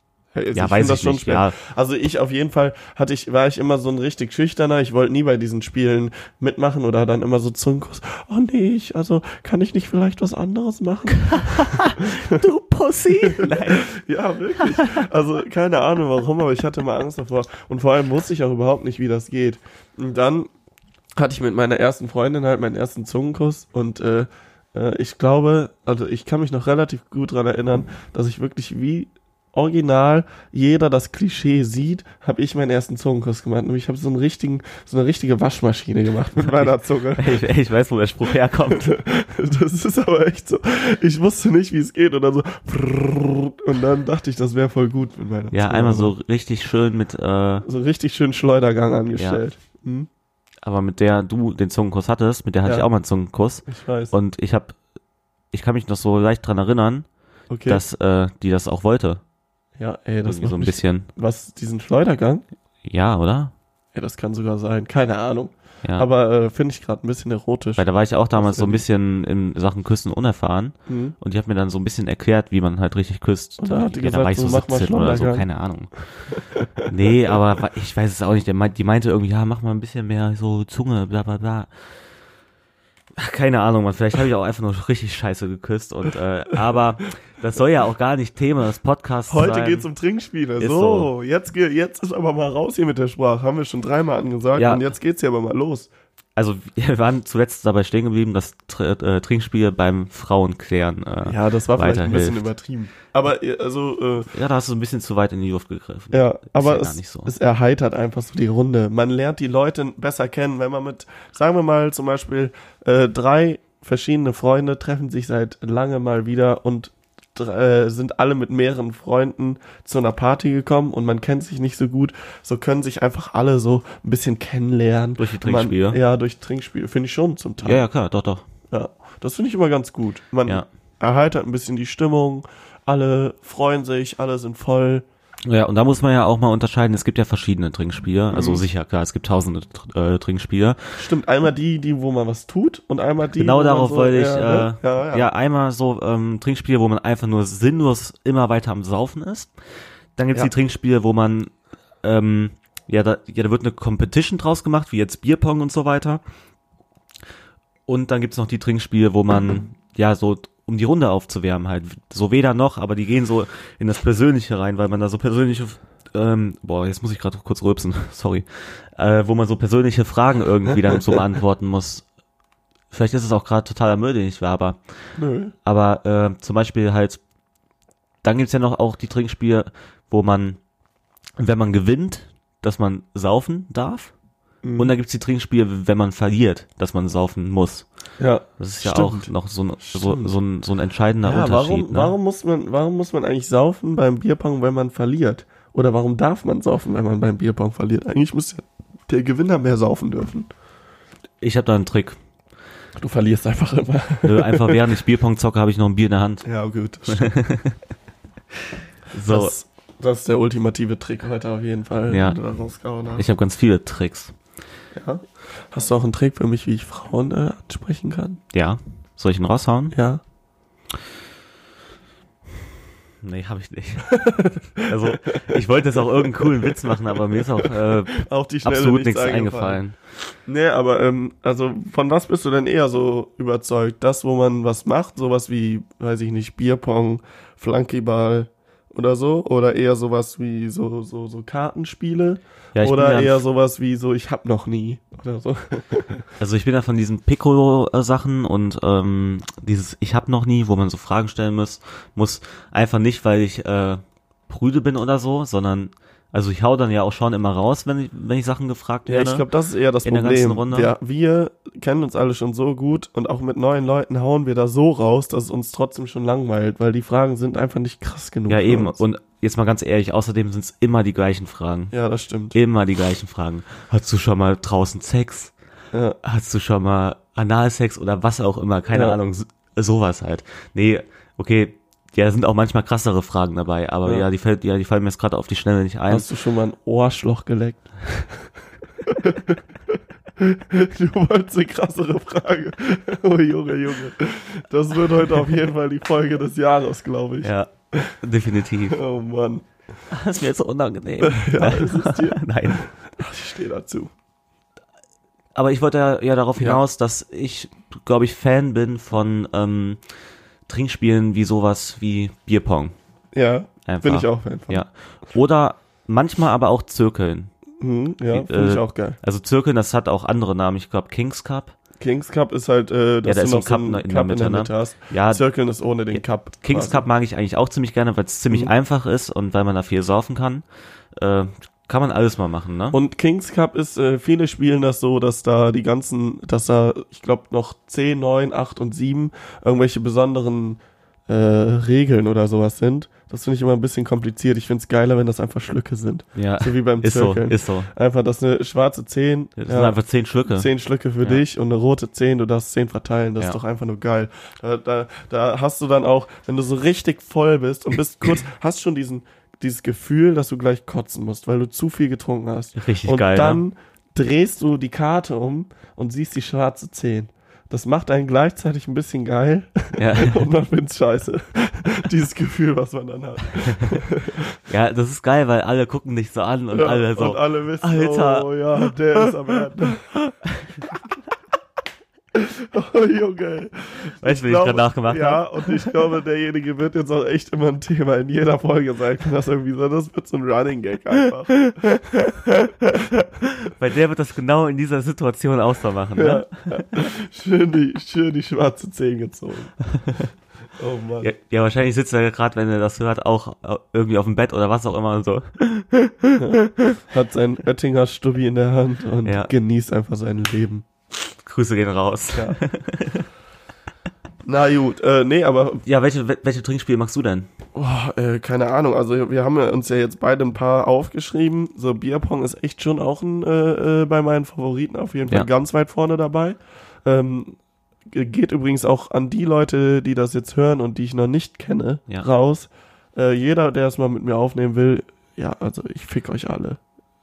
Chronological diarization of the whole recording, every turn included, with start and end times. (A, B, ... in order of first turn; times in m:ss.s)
0:00.3-0:12.4 A
0:00.5-0:01.6 B
0:11.1-0:13.9 B
0:13.2-0:20.5 A
0:14.6-0:15.1 B
0:21.2-0:37.4 A
0:36.4-0:39.0 B
0:38.7-0:46.1 A
0:45.5-0:47.7 B
0:47.6-0:50.1 A
0:49.2-0:49.4 B
0:50.6-0:54.8 B
0:53.6-0:54.1 A
0:55.5-0:57.0 B
0:57.5-0:57.8 A
0:57.6-0:59.2 B
0:59.8-1:02.4 A
1:00.2-1:01.1 B
1:02.8-1:03.5 B
1:03.9-1:07.8 A
1:07.8-1:16.0 B
1:08.4-1:08.8 A
1:10.9-1:11.2 A
1:13.6-1:15.4 A
1:16.5-1:16.8 A
1:16.8-1:21.7 B
1:23.2-1:29.9 B
1:29.3-1:35.9 A
1:30.6-1:31.1 B
1:34.6-1:34.9 B
1:36.4-1:42.5 B
1:41.2-1:44.3 A
1:44.3-1:47.3 B
1:46.1-2:07.8 A
2:05.2-2:06.0 B
2:07.6-2:08.4 B
2:08.7-2:15.0 A
2:15.5-2:21.0 B
2:18.3-2:18.6 A
2:21.0-2:25.2 A
2:23.4-2:29.5 B
2:30.2-2:36.2 B
2:37.9-2:52.0 B
2:52.9-2:54.8 B
2:55.2-2:55.5 A
2:55.6-2:57.2 B
2:58.2-3:00.6 B
3:01.4-3:04.1 B
3:04.6-3:04.9 A
3:04.8-3:07.9 B
3:08.2-3:09.3 A
3:08.6-3:12.1 B
3:09.9-3:10.3 A
3:11.2-3:20.5 A
3:21.4-3:22.2 B
3:23.0-3:24.8 A
3:24.2-3:26.4 B
3:26.4-3:27.3 A
3:27.1-3:27.8 B
3:29.1-3:29.5 B
3:29.3-3:33.2 A
3:32.1-3:32.4 B
3:33.1-3:34.3 B
3:34.9-3:38.4 A
3:38.5-3:40.0 B
3:39.9-3:40.2 A
3:43.2-3:44.2 B
3:44.1-3:49.8 A
3:44.8-3:50.0 B
3:50.4-4:06.3 A
4:02.7-4:03.4 B
4:06.4-4:19.5 B
4:19.0-4:29.0 A
4:20.0-4:20.9 B
4:28.5-4:31.9 B
4:31.9-4:32.6 A
4:32.5-4:35.5 B
4:35.9-4:36.2 A
4:36.2-4:46.3 B
4:38.9-4:39.2 A
4:46.1-4:48.5 A
4:49.0-4:58.1 A
4:57.4-4:59.0 B
4:58.9-4:59.6 A
5:00.1-5:02.9 B
5:01.2-5:04.1 A
5:05.5-5:10.0 B
5:10.7-5:12.9 B
5:13.3-5:14.8 A
5:13.8-5:17.5 B
5:17.8-5:19.2 A
5:18.3-5:21.7 B
5:22.0-5:27.0 A
5:23.2-5:25.4 B
5:26.1-5:30.6 B
5:31.1-5:33.0 B
5:32.9-5:50.0 A
5:46.4-5:47.9 B
5:49.6-5:50.7 B
5:50.5-6:14.6 A
6:02.8-6:03.6 B
6:10.0-6:10.5 B
6:13.6-6:14.0 B
6:14.7-6:18.5 B
6:16.7-6:20.2 A
6:22.3-6:33.2 A
6:24.2-6:25.8 B
6:33.6-6:36.9 B
6:36.2-6:39.8 A
6:40.0-6:40.2 B
6:40.8-6:41.3 A
6:41.2-6:46.4 B
6:46.4-6:50.8 A
6:49.2-6:49.5 B
6:51.2-6:53.3 B
6:54.4-6:55.8 A
6:55.8-6:57.5 B
6:57.7-7:07.6 A
7:08.1-7:16.8 A